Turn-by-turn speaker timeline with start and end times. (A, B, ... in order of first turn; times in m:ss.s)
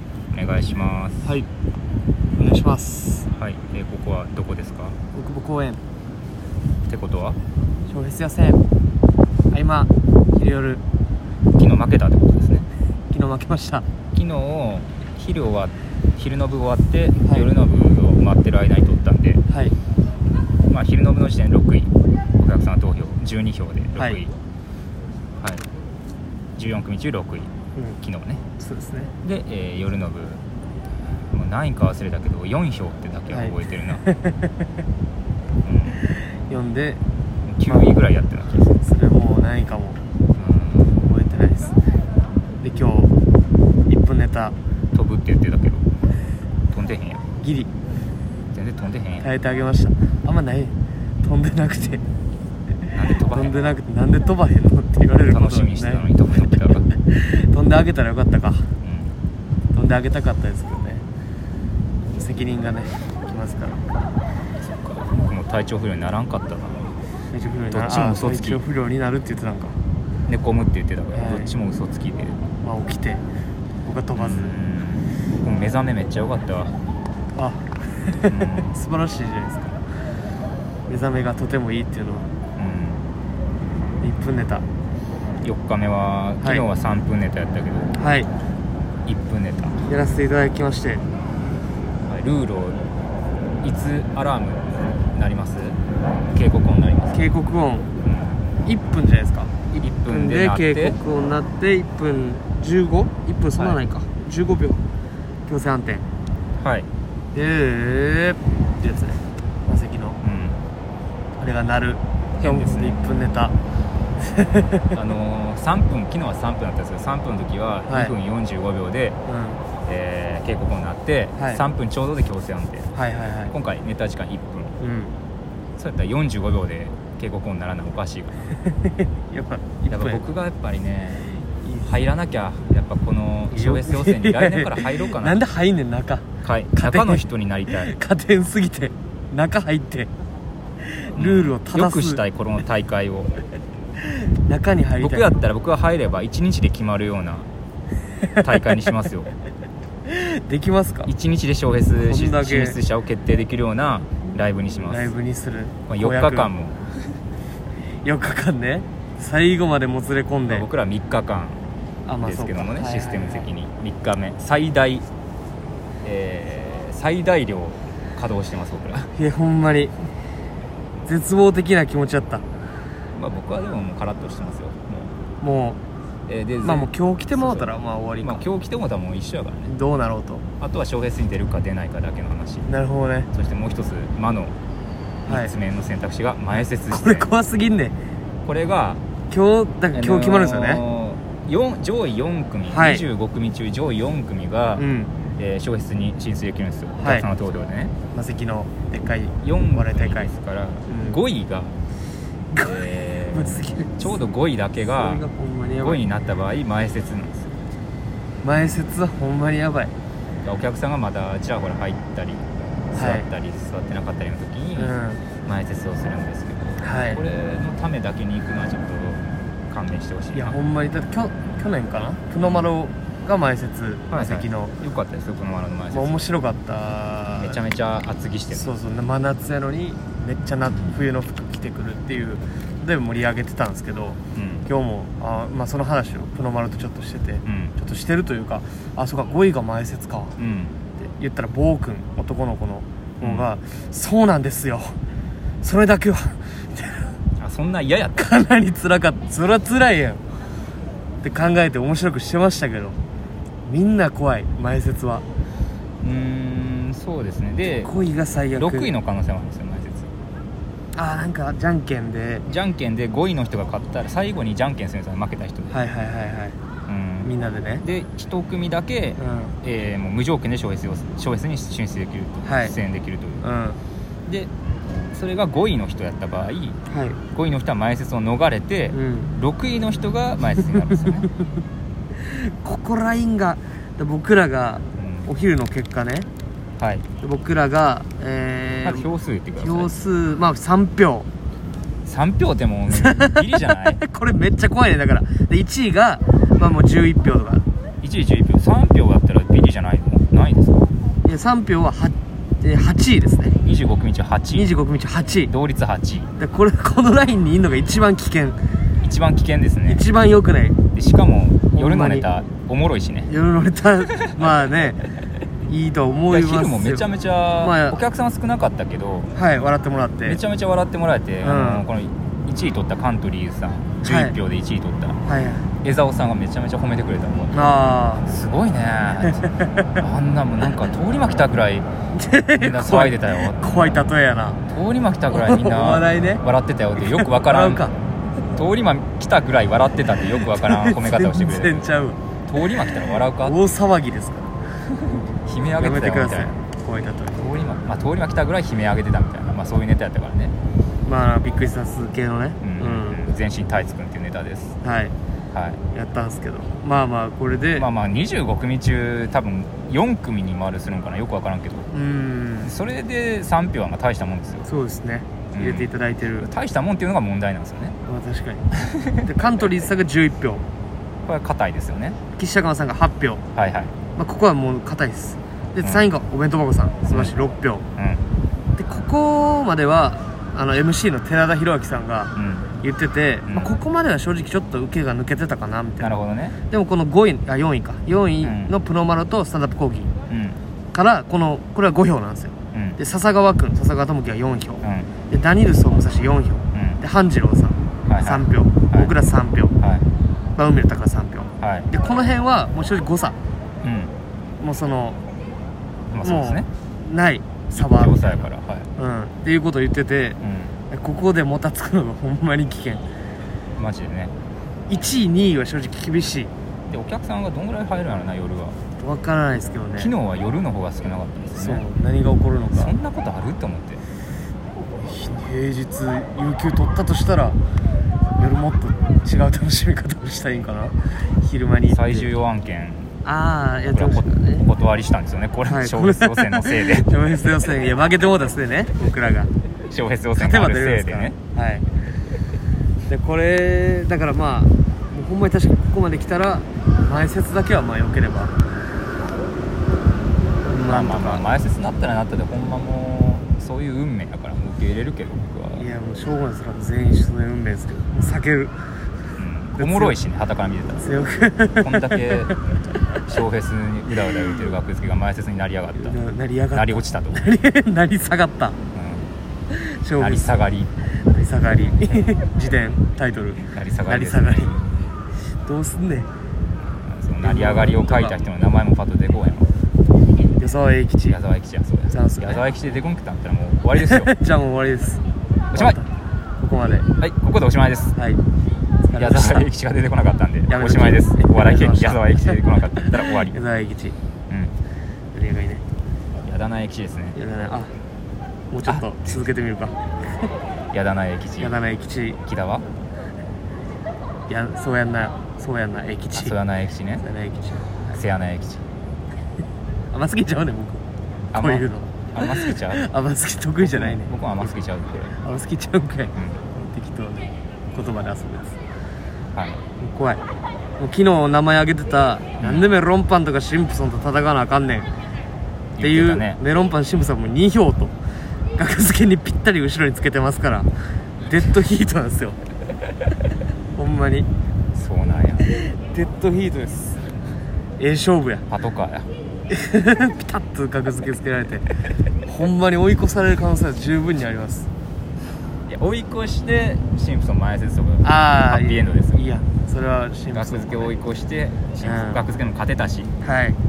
0:00.3-0:01.3 A
0:02.4-0:03.3 B
0:03.3-0:05.0 A
0:05.1-0:05.8 B
0:06.9-0:07.4 A
0:07.9-0:08.7 B
0:09.5-0:10.8 B
0:11.6-0:12.7 A
0:13.1-0:13.9 B
0:14.1-0:19.4 A
0:19.5-0:19.8 B
0:20.7-0:24.3 A
0:25.4-0:25.7 A
0:26.6-0:28.4 A
0:28.6-0:29.1 B
0:29.2-0:30.4 A
0:31.3-0:34.0 A
0:33.3-0:34.6 B
0:35.6-0:36.0 A
0:36.2-0:37.0 B
0:37.4-0:38.8 A
0:37.7-0:38.0 B
0:38.8-0:40.0 B
0:40.3-0:41.1 A
0:41.0-0:41.8 B
0:42.6-0:43.2 B
0:43.9-0:44.6 B
0:44.9-0:45.9 A
0:46.7-0:47.2 A
0:47.4-0:47.7 B
0:48.5-0:49.3 A
0:49.2-0:52.0 B
0:52.9-0:53.5 A
0:53.3-0:58.7 B
0:55.3-0:56.9 A
0:58.8-0:59.2 A
0:59.7-1:01.0 B
1:02.1-1:03.8 B
1:04.6-1:06.9 A
1:07.3-1:09.8 B
1:07.7-1:08.6 A
1:10.3-1:12.4 A
1:11.1-1:11.5 B
1:12.6-1:13.2 B
1:13.8-1:14.6 B
1:14.2-1:16.8 A
1:17.4-1:19.8 B
1:18.3-1:18.7 A
1:20.9-1:22.3 B
1:22.6-1:23.1 A
1:24.0-1:24.7 B
1:25.4-1:28.0 A
1:28.0-1:28.3 B
1:29.0-1:29.8 A
1:29.8-1:31.0 B
1:32.1-1:32.8 A
1:33.6-1:35.8 A
1:36.3-1:37.2 A
1:37.1-1:37.9 B
1:38.0-1:38.5 A
1:38.6-1:44.8 B
1:39.8-1:41.0 A
1:45.5-1:46.0 B
1:46.6-1:46.9 A
1:47.3-1:50.2 B
1:50.2-1:50.6 A
1:51.4-1:53.6 B
1:52.4-1:53.0 A
1:54.2-1:55.0 B
1:54.9-1:59.2 A
1:57.9-1:58.1 B
1:59.3-1:59.6 B
1:59.8-2:02.9 A
2:01.4-2:01.6 B
2:02.9-2:03.5 B
2:03.5-2:04.8 A
2:04.8-2:05.2 B
2:05.8-2:08.5 A
2:08.7-2:10.2 B
2:09.9-2:11.3 A
2:11.4-2:11.9 B
2:11.8-2:15.4 A
2:13.5-2:17.2 B
2:16.4-2:17.9 A
2:17.8-2:20.1 B
2:21.0-2:22.2 B
2:21.2-2:23.3 A
2:24.0-2:25.3 B
2:25.0-2:27.5 A
2:28.4-2:29.3 A
2:30.1-2:31.1 B
2:31.1-2:35.1 A
2:32.0-2:32.8 B
2:34.9-2:36.5 B
2:35.9-2:36.8 A
2:38.0-2:40.7 B
2:40.5-2:41.6 A
2:42.1-2:43.5 B
2:42.2-2:45.1 A
2:46.0-2:49.1 A
2:49.1-2:50.0 B
2:51.0-2:52.4 B
2:53.1-2:55.2 A
2:55.4-2:55.8 B
2:56.3-2:59.7 A
2:56.6-2:58.4 B
2:59.7-3:00.4 B
3:00.6-3:02.7 A
3:02.7-3:03.3 B
3:03.3-3:04.6 A
3:05.3-3:07.3 A
3:06.9-3:08.0 B
3:08.4-3:09.0 A
3:09.3-3:10.8 B
3:09.9-3:17.9 A
3:12.7-3:13.0 B
3:14.8-3:15.1 B
3:17.0-3:17.3 B
3:18.1-3:20.3 B
3:19.4-3:21.8 A
3:20.9-3:21.2 B
3:22.5-3:24.2 B
3:22.6-3:25.2 A
3:24.8-3:26.0 B
3:25.8-3:27.5 A
3:28.4-3:29.9 B
3:30.4-3:40.6 A
3:33.0-3:33.2 B
3:34.8-3:35.2 B
3:36.8-3:37.2 B
3:40.3-3:44.8 B
3:42.4-3:42.7 A
3:44.1-3:46.3 A
3:45.9-3:47.6 B
3:47.4-3:48.7 A
3:48.5-4:00.4 B
3:54.3-3:54.7 A
3:57.4-3:57.8 A
4:00.4-4:00.8 A
4:01.0-4:05.0 B
4:03.2-4:03.5 A
4:05.6-4:07.1 B
4:07.4-4:08.2 A
4:08.2-4:10.2 B
4:11.2-4:13.0 B
4:13.6-4:15.2 B
4:16.0-4:17.9 A
4:17.7-4:18.9 B
4:18.6-4:20.1 A
4:21.0-4:22.4 B
4:22.4-4:25.7 A
4:25.7-4:26.6 B
4:26.9-4:33.4 A
4:27.2-4:27.8 B
4:29.2-4:29.5 B
4:32.4-4:32.7 B
4:33.4-4:33.8 B
4:34.3-4:36.8 A
4:36.9-4:37.2 B
4:37.3-4:41.3 A
4:38.9-4:39.3 B
4:42.2-4:46.3 B
4:45.0-4:45.3 A
4:46.8-4:47.1 A
4:47.2-4:49.1 B
4:48.8-4:49.9 A
4:49.6-4:51.3 B
4:52.1-4:54.0 A
4:52.9-4:57.7 B
4:58.0-5:00.9 A
5:01.2-5:03.6 B
5:03.6-5:04.7 A
5:04.5-5:05.5 B
5:05.5-5:06.3 A
5:06.4-5:08.6 B
5:09.0-5:10.0 A
5:09.9-5:10.8 B
5:10.9-5:13.3 A
5:11.8-5:12.3 B
5:13.3-5:15.1 B
5:14.2-5:14.6 A
5:15.7-5:17.1 B
5:16.3-5:19.3 A
5:17.6-5:18.0 B
5:19.3-5:20.4 B
5:20.2-5:25.2 A
5:21.4-5:21.8 B
5:24.0-5:24.4 B
5:25.3-5:25.7 B
5:25.8-5:27.7 A
5:27.5-5:28.3 B
5:28.3-5:31.9 A
5:29.3-5:29.9 B
5:32.1-5:34.6 B
5:32.6-5:34.0 A
5:34.7-5:37.8 A
5:35.3-5:36.4 B
5:37.0-5:38.0 B
5:38.6-5:41.9 A
5:40.5-5:42.2 B
5:42.5-5:43.6 A
5:43.4-5:44.5 B
5:45.0-5:46.5 A
5:45.1-5:47.4 B
5:47.4-5:50.6 A
5:51.0-5:53.2 B
5:52.6-5:54.8 A
5:54.8-5:55.2 B
5:55.5-5:55.8 A
5:55.9-5:57.9 B
5:57.8-6:01.9 A
6:01.9-6:02.7 B
6:02.6-6:04.7 A
6:04.6-6:06.5 B
6:05.5-6:05.9 A
6:06.4-6:08.0 A
6:08.1-6:08.6 B
6:08.9-6:09.2 A
6:09.2-6:10.6 B
6:11.2-6:12.2 A
6:12.4-6:13.4 B
6:13.6-6:13.9 A
6:14.2-6:17.9 B
6:17.1-6:17.4 A
6:18.0-6:18.2 A
6:18.8-6:26.1 B
6:22.4-6:22.7 A
6:23.5-6:23.7 A
6:26.0-6:26.6 A
6:26.7-6:30.1 B
6:28.4-6:28.7 A
6:30.3-6:30.6 A
6:30.9-6:39.8 B
6:32.7-6:33.0 A
6:34.8-6:35.1 A
6:36.7-6:37.0 A
6:38.1-6:39.1 A
6:39.8-6:40.1 A
6:40.6-6:43.4 B
6:41.6-6:41.9 A
6:43.8-6:44.1 A
6:44.6-6:45.2 B
6:46.1-6:46.7 A
6:46.2-6:50.4 B
6:47.7-6:48.9 A
6:50.4-6:50.8 A
6:50.9-6:53.0 B
6:53.8-6:54.3 A
6:54.9-6:56.5 B
6:56.9-6:58.8 A
6:59.0-7:00.1 B
7:00.0-7:01.8 A
7:01.6-7:03.0 B
7:02.7-7:04.0 A
7:05.0-7:07.6 B
7:08.4-7:12.3 B
7:11.9-7:13.2 A
7:13.2-7:14.6 B
7:13.9-7:17.1 A
7:15.6-7:19.5 B
7:19.9-7:21.4 A
7:20.4-7:21.9 B
7:23.1-7:28.6 B
7:30.6-7:31.5 B
7:30.9-7:35.9 A
7:35.8-7:38.7 B
7:39.4-7:41.1 A
7:39.8-7:40.2 B
7:41.0-7:42.5 B
7:41.8-7:42.6 A
7:43.2-7:46.2 A
7:45.9-7:48.8 B
7:46.7-7:47.5 A
7:48.9-7:49.3 A
7:49.7-7:50.6 B
7:50.2-7:50.9 A
7:51.2-7:54.7 B
7:53.7-7:55.0 A
7:55.6-7:56.3 B
7:57.0-7:59.7 A
7:57.4-7:58.4 B
8:00.6-8:01.4 B
8:01.3-8:04.3 A
8:02.1-8:02.6 B
8:04.0-8:05.2 B
8:05.7-8:06.0 A
8:05.8-8:06.1 B
8:06.6-8:07.1 B
8:07.2-8:08.2 A
8:08.2-8:08.4 B
8:09.0-8:09.7 B
8:09.1-8:13.6 A
8:10.7-8:14.2 B
8:15.3-8:15.8 B
8:16.4-8:17.4 A
8:17.4-8:17.9 B
8:18.7-8:20.4 B
8:18.8-8:19.4 A
8:20.9-8:21.8 A
8:21.6-8:22.4 B
8:22.5-8:22.9 A
8:24.5-8:26.6 B
8:26.4-8:27.2 A
8:27.2-8:28.2 B
8:28.1-8:28.8 A
8:30.1-8:34.7 B
8:31.5-8:33.0 A
8:33.8-8:35.4 A
8:35.4-8:38.8 B
8:36.4-8:36.6 A
8:39.6-8:39.8 A
8:40.0-8:40.4 B
8:41.0-8:45.1 B
8:42.6-8:42.9 A
8:46.0-8:46.6 A
8:46.0-8:48.2 B
8:48.8-8:52.6 B
8:54.0-8:54.5 B
8:54.9-8:55.7 A
8:55.6-8:57.2 B
8:58.0-8:58.6 B
8:58.7-8:59.3 A
8:59.7-9:01.9 B
9:02.5-9:04.9 B
9:05.9-9:09.4 A
9:08.2-9:11.1 B
9:10.5-9:13.3 A
9:12.0-9:12.4 B
9:13.4-9:13.8 B